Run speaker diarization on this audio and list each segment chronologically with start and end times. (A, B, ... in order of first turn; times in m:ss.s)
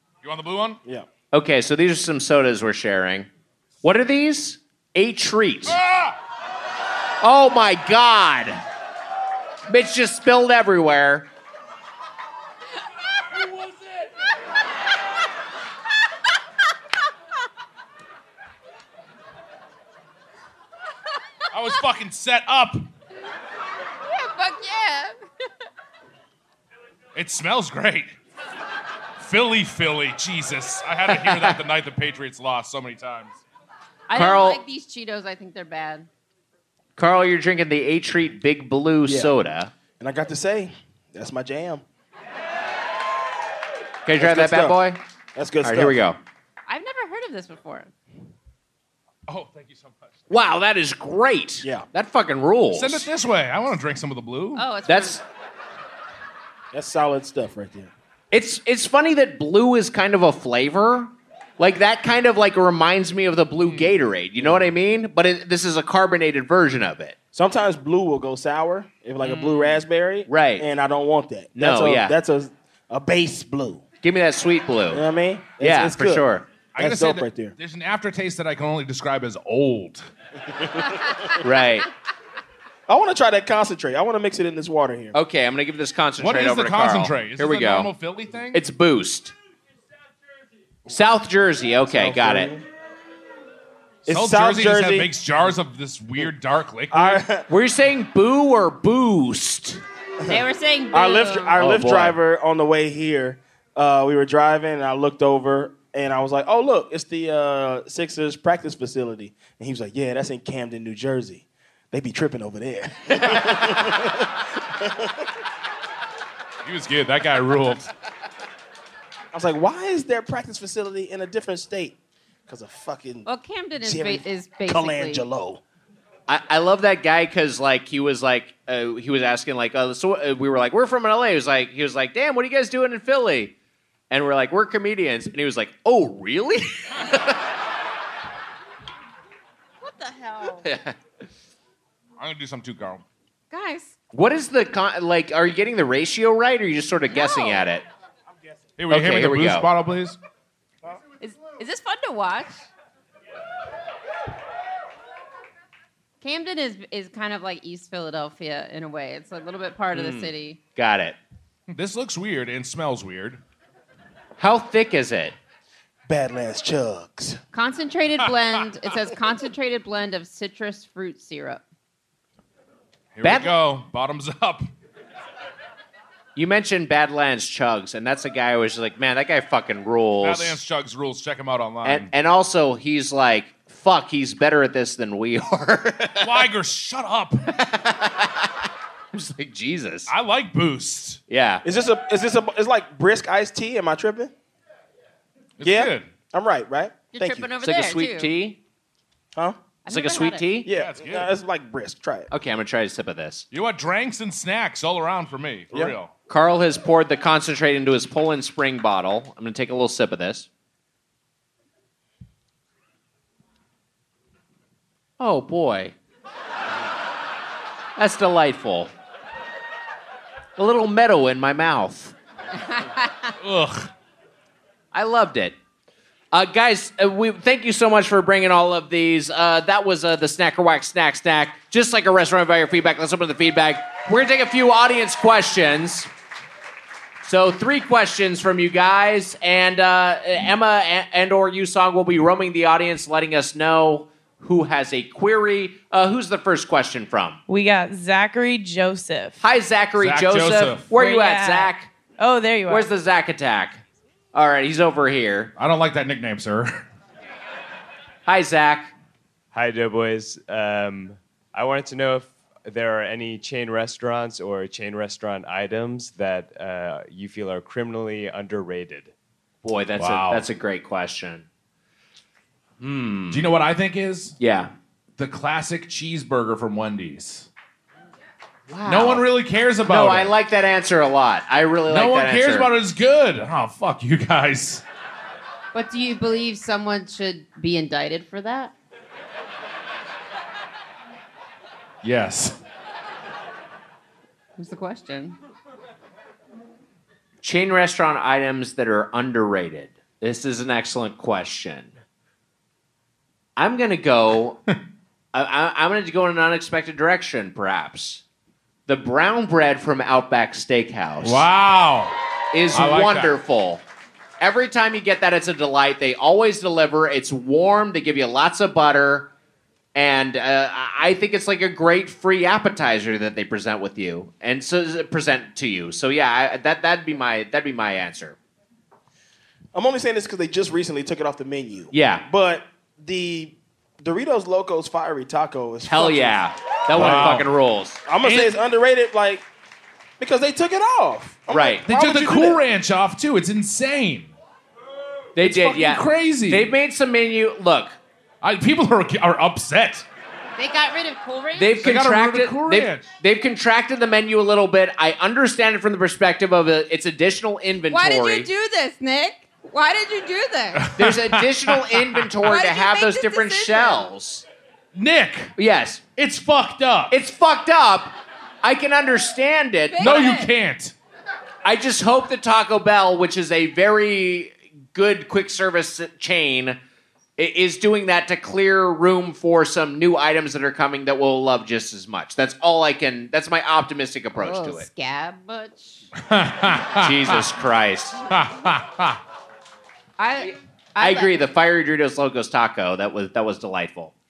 0:00.2-0:00.8 A
0:01.3-0:03.3 B
0:03.8-0:05.8 B
0:05.7-0:06.2 A
0:07.2-0:08.6 B
0:09.7-0:11.3 B
0:21.5-0:22.9 A
0:24.1-0:25.2 C
0:27.2-0:28.1 A
0:29.2-0:33.4 A
0:34.1-0:36.1 C
0:34.1-0:34.6 B
0:37.0-0:39.7 B
0:39.0-0:39.3 D
0:40.0-0:41.8 D
0:44.1-0:45.0 B
0:44.2-0:44.8 D
0:45.4-0:46.1 D
0:45.6-0:46.2 B
0:46.7-0:47.9 C
0:49.3-0:50.1 A
0:50.3-0:53.1 B
0:52.7-0:54.6 A
0:54.6-0:55.2 C
0:54.9-0:55.2 B
0:56.7-0:57.9 D
0:58.3-1:07.2 B
1:04.4-1:04.7 D
1:07.3-1:13.8 D
1:09.4-1:09.7 C
1:10.3-1:10.6 B
1:11.6-1:12.1 B
1:14.0-1:15.0 B
1:14.9-1:16.3 D
1:15.6-1:16.5 B
1:16.7-1:20.1 A
1:16.8-1:17.5 D
1:21.4-1:21.9 B
1:22.9-1:25.2 D
1:25.1-1:27.9 B
1:26.2-1:28.6 A
1:28.5-1:29.3 B
1:30.9-1:32.5 B
1:31.9-1:32.6 D
1:34.1-1:35.1 D
1:34.1-1:37.2 A
1:36.9-1:37.5 D
1:37.5-1:39.8 B
1:40.3-1:41.6 C
1:40.9-1:55.1 D
1:41.6-1:42.2 B
1:56.6-1:57.9 A
1:59.3-2:02.0 D
2:02.5-2:03.3 D
2:03.3-2:05.2 C
2:03.8-2:05.6 D
2:06.3-2:13.6 B
2:14.1-2:17.5 B
2:19.8-2:20.6 C
2:20.6-2:21.0 B
2:22.2-2:23.0 A
2:23.5-2:23.9 C
2:24.1-2:27.8 B
2:27.1-2:27.6 C
2:28.8-2:30.2 A
2:28.9-2:29.7 B
2:31.2-2:32.6 C
2:36.2-2:40.6 C
2:39.9-2:41.2 B
2:41.7-2:43.4 A
2:44.4-2:45.4 B
2:46.1-2:47.4 D
2:47.5-2:51.6 C
2:53.1-2:54.7 A
2:53.2-2:53.5 B
2:56.4-3:00.6 B
3:00.2-3:02.1 A
3:01.8-3:06.4 B
3:06.2-3:07.5 A
3:07.6-3:08.5 B
3:09.1-3:10.1 B
3:10.1-3:11.2 A
3:11.3-3:11.6 B
3:11.6-3:14.3 D
3:15.6-3:16.1 A
3:15.6-3:17.5 D
3:17.1-3:18.3 C
3:17.6-3:18.6 B
3:19.8-3:20.5 C
3:19.9-3:20.7 B
3:20.6-3:22.3 D
3:20.7-3:21.3 A
3:22.3-3:23.5 B
3:23.5-3:26.1 A
3:26.3-3:30.5 B
3:35.2-3:36.0 B
3:38.0-3:38.9 B
3:40.6-3:42.2 B
3:43.4-3:43.9 A
3:44.9-3:45.6 B
3:46.3-3:56.1 B
3:57.2-4:07.4 B
4:07.5-4:09.4 E
4:09.4-4:11.9 B
4:10.0-4:10.9 A
4:10.9-4:12.9 E
4:12.7-4:13.8 B
4:14.3-4:15.5 B
4:15.6-4:16.8 A
4:18.2-4:18.9 B
4:19.5-4:29.1 F
4:29.6-4:31.5 B
4:30.0-4:30.5 A
4:32.8-4:33.5 B
4:33.3-4:34.4 A
4:34.4-4:34.7 B
4:35.2-4:37.5 A
4:38.7-4:39.3 B
4:38.8-4:40.3 A
4:39.9-4:42.7 B
4:41.9-4:44.8 A
4:45.7-4:48.7 C
4:52.0-4:52.6 A
4:54.6-4:55.4 C
4:57.4-5:02.0 B
5:03.6-5:04.6 B
5:05.3-5:08.2 B
5:08.9-5:11.5 B
5:11.2-5:12.2 A
5:12.5-5:13.8 B
5:12.7-5:13.4 A
5:14.4-5:19.3 B
5:20.0-5:28.4 B
5:29.7-5:36.4 D
5:31.9-5:32.2 B
5:35.9-5:38.0 B
5:36.9-5:37.5 A
5:37.0-5:37.4 D
5:38.1-5:39.4 D
5:38.2-5:38.6 A
5:40.2-5:42.6 D
5:41.5-5:41.9 B
5:41.8-5:44.3 A
5:45.4-5:48.0 B
5:45.4-5:46.7 A
5:48.4-5:50.1 A
5:50.6-5:51.8 C
5:51.6-5:58.5 B
5:51.8-5:53.1 A
5:57.9-6:01.0 C
6:00.8-6:02.3 A
6:01.0-6:04.4 B
6:02.4-6:04.1 C
6:05.0-6:05.5 A
6:05.6-6:06.0 B
6:06.2-6:07.2 A
6:07.1-6:10.2 B
6:09.9-6:10.5 C
6:10.0-6:11.0 A
6:11.6-6:16.8 B
6:17.4-6:24.9 B
6:24.4-6:26.1 C
6:26.2-6:27.4 A
6:27.0-6:28.2 B
6:28.3-6:29.2 A
6:30.2-6:31.5 C
6:31.0-6:34.1 B